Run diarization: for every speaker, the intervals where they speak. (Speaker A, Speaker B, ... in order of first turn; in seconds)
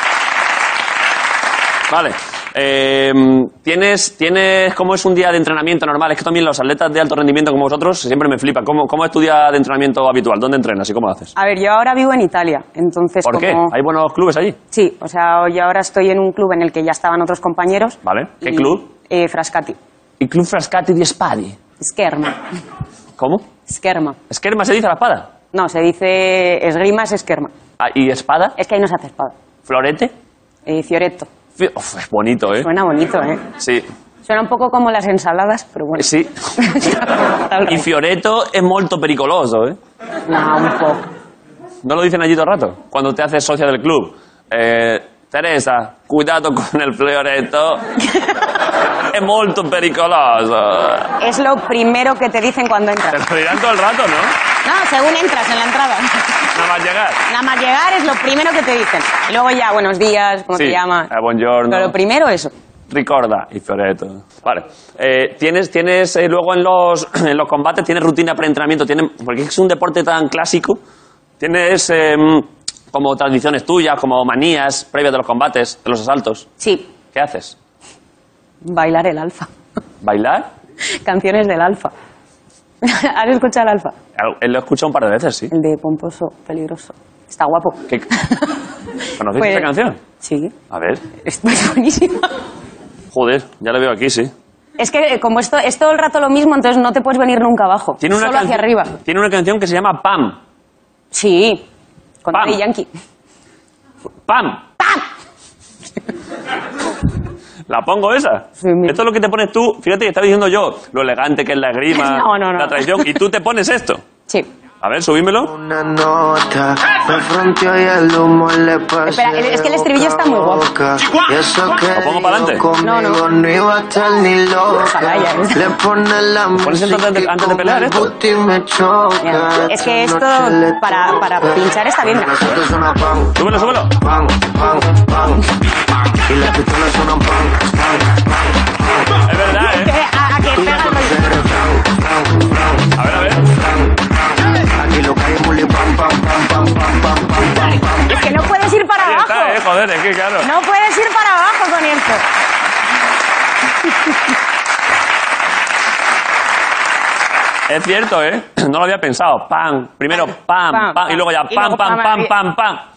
Speaker A: 1.9-11.3, 13.2-14.6, 18.0-18.9, 20.2-21.6, 23.2-23.4, 24.3-25.3, 27.8-28.6, 29.7-30.1, 31.6-32.7, 33.6-33.9, 36.0-36.3, 37.6-39.8, 41.8-47.8, 49.1-51.1, 53.1-54.3, 56.5-57.2, 60.5-61.9, 62.9-70.8, 71.4-76.5, 77.1-77.5, 80.0-80.5, 84.2-85.5, 89.2-90.0, 90.7-91.0, 93.1-94.3, 98.0-100.4, 102.3-102.6, 104.3-104.6, 107.7-114.0, 114.8-115.5, 121.9-122.6, 126.6-128.1, 133.3-133.9, 139.2-139.9, 142.9-143.5, 149.0-150.5, 157.7-162.9
Speaker B: 11.3-13.7, 14.7-19.8, 21.8-22.4, 23.7-24.2, 25.5-27.5, 28.6-29.3, 30.6-31.3, 32.6-33.4, 34.2-37.9, 40.3-41.0, 51.2-53.2, 54.6-56.3, 57.3-61.1, 61.7-62.5, 76.6-76.9, 78.6-79.5, 80.9-81.9, 82.8-83.9, 85.5-88.5, 89.3-89.7, 90.2-90.5, 91.2-92.3, 94.8-98.9, 101.1-101.7, 102.2-102.9, 108.6-109.0, 111.9-113.1, 119.0-120.7, 122.8-123.2, 124.7-125.7, 129.2-132.4, 139.6-141.2, 148.1-149.6, 150.4-152.2, 160.1-162.3
Speaker C: 115.4-135.4, 136.2-138.2, 140.5-142.9, 143.5-148.1